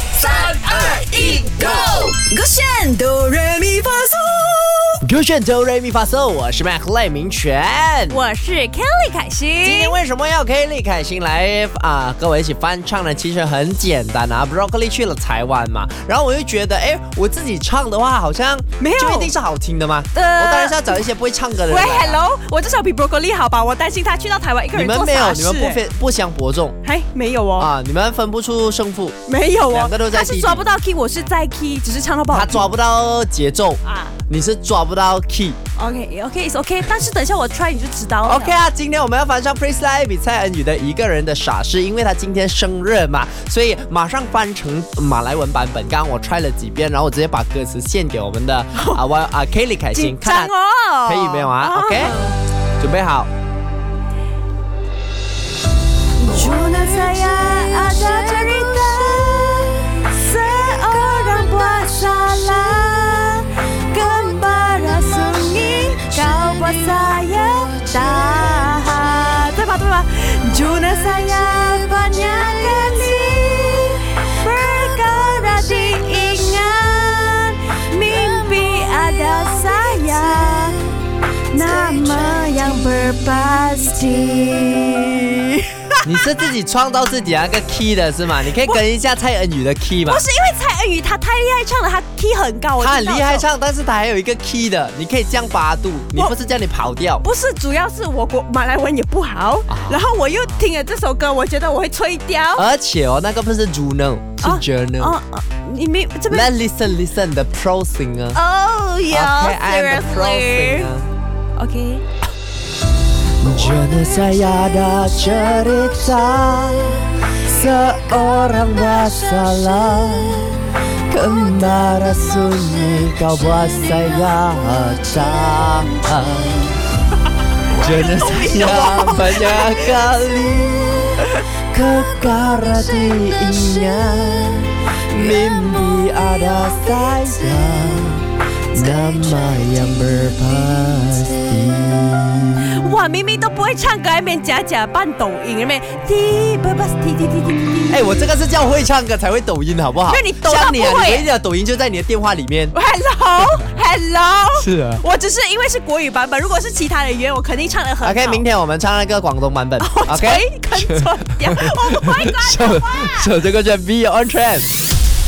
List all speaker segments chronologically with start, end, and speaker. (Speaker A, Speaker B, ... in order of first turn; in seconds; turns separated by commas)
Speaker A: 0.3-4.8, Speaker B: 2.1-4.2, Speaker C: 5.0-8.2, Speaker B: 8.1-10.0, Speaker C: 9.6-22.2, Speaker B: 18.8-19.3, Speaker B: 20.1-21.1, Speaker B: 21.7-25.8, Speaker C: 24.7-26.8, Speaker B: 26.8-27.7, Speaker C: 27.6-29.2, Speaker B: 29.3-32.7, Speaker C: 29.7-30.7, Speaker C: 32.3-35.6, Speaker B: 33.8-34.2, Speaker B: 35.8-38.6, Speaker C: 38.3-50.5, Speaker B: 48.8-49.0, Speaker B: 49.9-52.4, Speaker C: 51.1-52.2, Speaker C: 52.8-53.3, Speaker B: 56.2-80.9, Speaker B: 81.5-86.0, Speaker C: 86.0-90.2, Speaker B: 90.0-93.5, Speaker C: 92.8-97.2, Speaker B: 97.2-102.7, Speaker C: 99.7-100.5, Speaker C: 102.6-105.2, Speaker B: 104.4-106.5, Speaker C: 106.3-108.4, Speaker B: 108.3-110.9, Speaker C: 109.1-111.1, Speaker B: 111.6-112.0, Speaker C: 113.4-126.8, Speaker B: 127.7-129.8, Speaker C: 127.7-143.0, Speaker B: 142.6-148.0, Speaker C: 147.9-152.8, Speaker B: 150.1-151.3, Speaker B: 152.7-158.4, Speaker C: 154.6-155.0, Speaker C: 158.0-164.7, Speaker B: 159.8-163.3